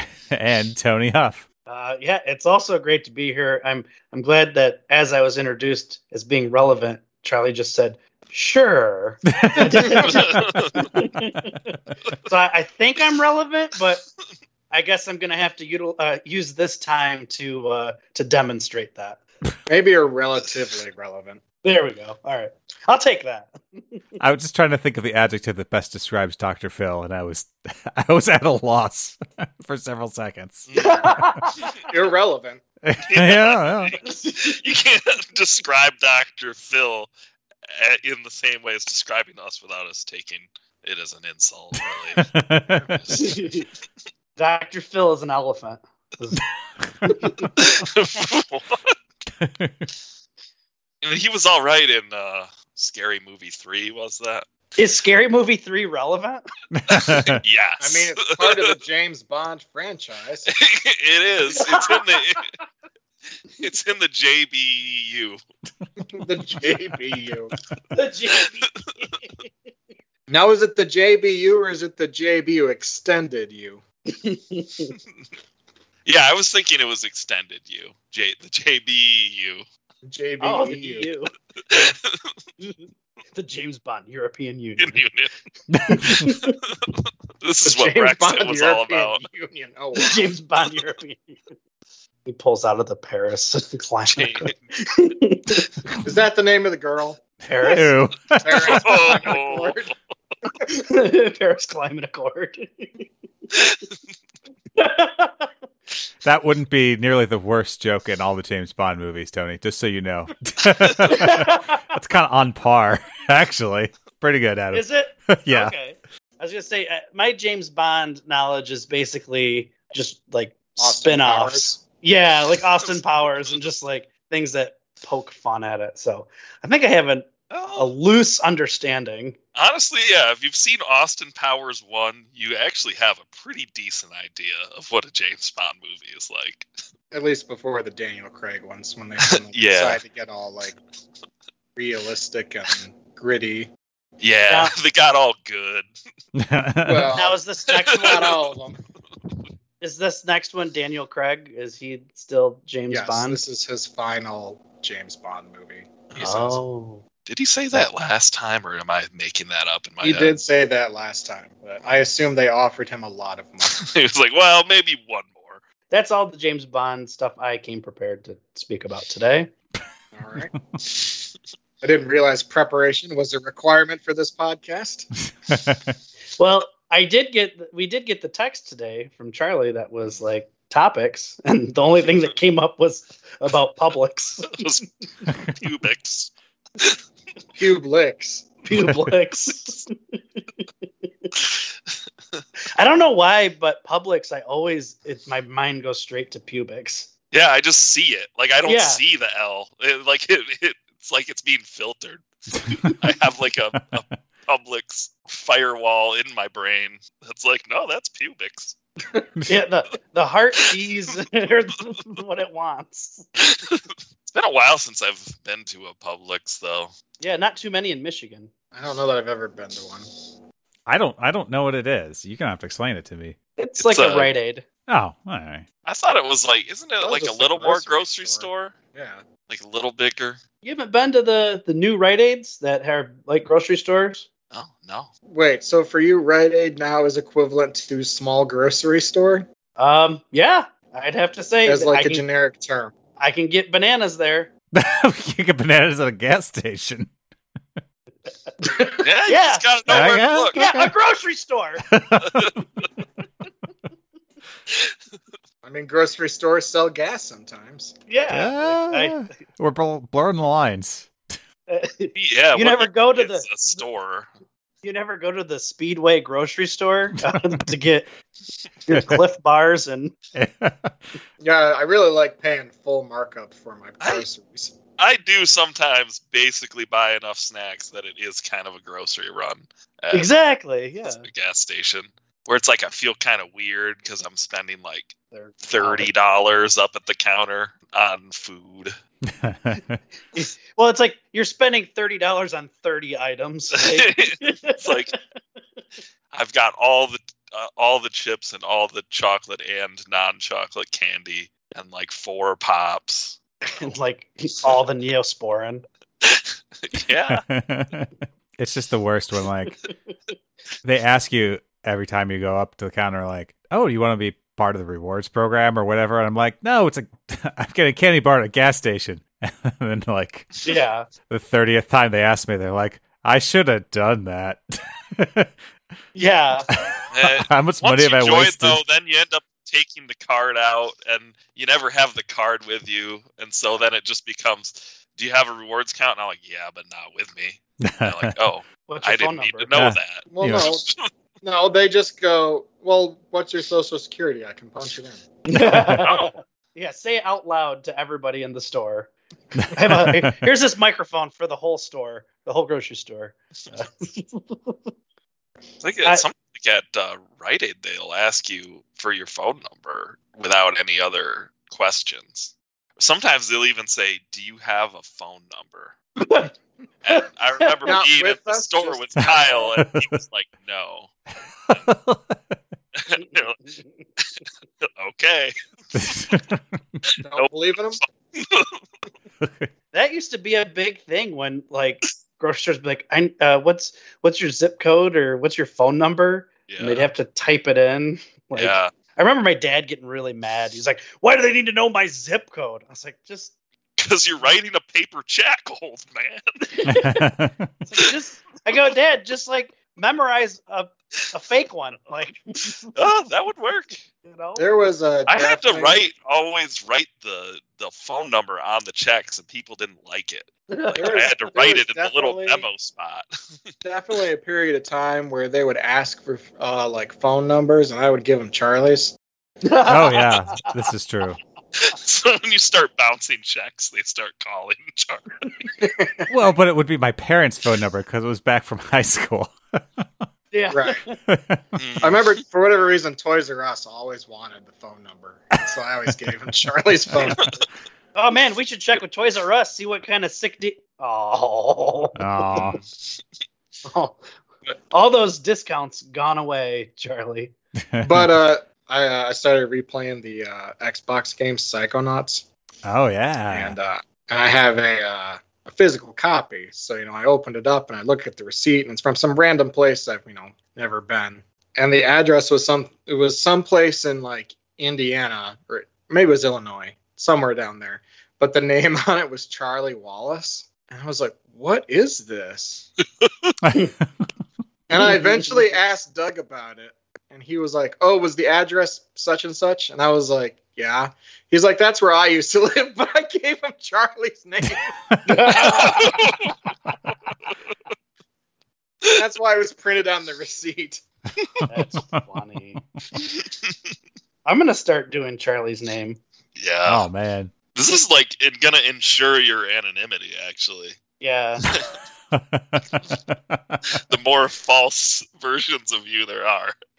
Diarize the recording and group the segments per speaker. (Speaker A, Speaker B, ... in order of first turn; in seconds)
Speaker A: 0.3-1.4, 9.4-10.8, 24.2-30.7, 32.9-34.0, 42.3-43.0, 49.4-49.9, 56.8-57.4, 85.7-86.3, 97.6-98.8, 106.2-115.7, 146.4-147.2, 175.5-175.8, 202.7-202.9, 220.9-223.4, 224.9-225.7, 244.7-247.1, 249.9-250.9, 251.9-252.5, 258.3-261.1, 268.9-269.2, 270.4-270.9, 289.3-290.0, 307.4-309.8, 310.8-320.5, 321.3-325.5, 326.7-328.8, 337.8-338.3, 339.7-340.7, 349.6-350.3, 369.8-370.1, 371.7-372.6, 375.9-376.8, 379.4-379.7, 396.9-397.7, 419.9-421.4, 426.3-430.1, 431.3-431.6, 442.2-442.8, 447.9-448.3, 452.8-453.8, 473.6-473.9, 496.9-497.5, 502.3-503.8
Speaker B: 1.7-14.0, 14.7-19.2, 21.6-23.8, 30.8-31.8, 34.0-34.6, 43.1-43.7, 44.4-46.4, 47.1-47.5, 54.8-56.4, 61.5-62.4, 67.9-69.1, 74.1-74.9, 80.4-81.3, 83.3-85.0, 85.9-86.6, 87.7-88.2, 90.0-91.4, 92.3-95.7, 97.5-98.0, 100.7-103.0, 104.8-105.5, 111.1-111.8, 114.7-129.4, 147.2-148.4, 149.8-153.4, 156.2-157.0, 165.9-169.5, 176.4-184.6, 188.6-190.4, 191.0-191.3, 192.8-197.1, 198.7-199.0, 209.4-213.2, 217.2-218.5, 223.6-224.7, 230.6-234.3, 239.8-242.2, 243.2-244.5, 248.6-251.8, 258.1-259.3, 261.7-263.8, 264.8-268.1, 268.9-270.1, 280.1-281.2, 285.3-286.1, 290.3-295.1, 303.7-305.8, 320.6-321.1, 326.1-326.7, 338.9-339.7, 345.5-349.1, 349.7-354.9, 366.2-366.5, 367.1-368.0, 373.2-373.8, 379.9-393.5, 396.7-397.3, 397.8-402.9, 404.2-404.7, 410.7-411.3, 419.6-420.7, 430.5-431.2, 438.1-442.7, 443.9-444.2, 444.9-447.5, 475.0-475.6, 485.2-486.2, 491.7-492.8, 494.4-496.2, 501.2-501.7
Speaker C: 10.0-10.9, 30.7-31.0, 33.0-37.1, 37.7-42.4, 42.9-43.5, 47.6-49.0, 51.0-54.5, 57.0-58.7, 60.5-62.5, 63.6-65.4, 76.1-79.7, 81.7-82.2, 84.8-85.3, 87.4-89.3, 94.1-94.6, 98.6-99.9, 127.5-127.9, 129.6-136.7, 139.2-140.0, 144.2-145.9, 147.7-148.4, 156.1-156.6, 157.3-160.4, 163.7-165.6, 184.5-184.9, 185.5-187.0, 197.3-208.8, 213.4-216.9, 223.8-224.3, 225.8-228.8, 229.5-230.4, 234.5-235.1, 249.0-250.7, 262.2-264.3, 274.0-274.3, 275.0-280.3, 281.2-288.9, 293.7-295.1, 296.3-303.4, 306.2-307.4, 327.1-341.1, 345.9-346.3, 355.8-366.0, 367.0-371.1, 373.0-373.6, 374.8-375.6, 378.0-378.8, 386.7-387.1, 388.6-388.9, 394.0-396.5, 402.9-404.0, 405.3-413.3, 421.8-425.7, 431.8-432.3, 485.6-486.5, 496.6-497.1, 497.8-501.0, 504.0-506.7
Speaker D: 19.7-21.4, 30.8-31.0, 31.9-32.6, 57.8-60.5, 66.1-67.5, 70.3-73.8, 80.0-81.1, 87.7-90.3, 96.0-97.2, 98.4-99.9, 120.8-121.8, 137.1-140.8, 141.8-143.7, 146.8-147.4, 147.9-148.8, 152.9-155.9, 160.0-163.9, 170.1-170.6, 171.8-175.1, 187.6-188.5, 218.7-220.1, 227.0-229.2, 235.3-239.5, 241.7-242.9, 255.6-257.9, 271.4-274.7, 340.3-340.9, 341.4-345.2, 367.9-369.6, 377.2-378.0, 404.6-406.0, 411.0-412.7, 413.8-419.1, 425.8-426.3, 430.7-431.0, 432.0-437.5, 448.0-452.4, 453.5-472.9, 474.9-484.9, 489.1-491.0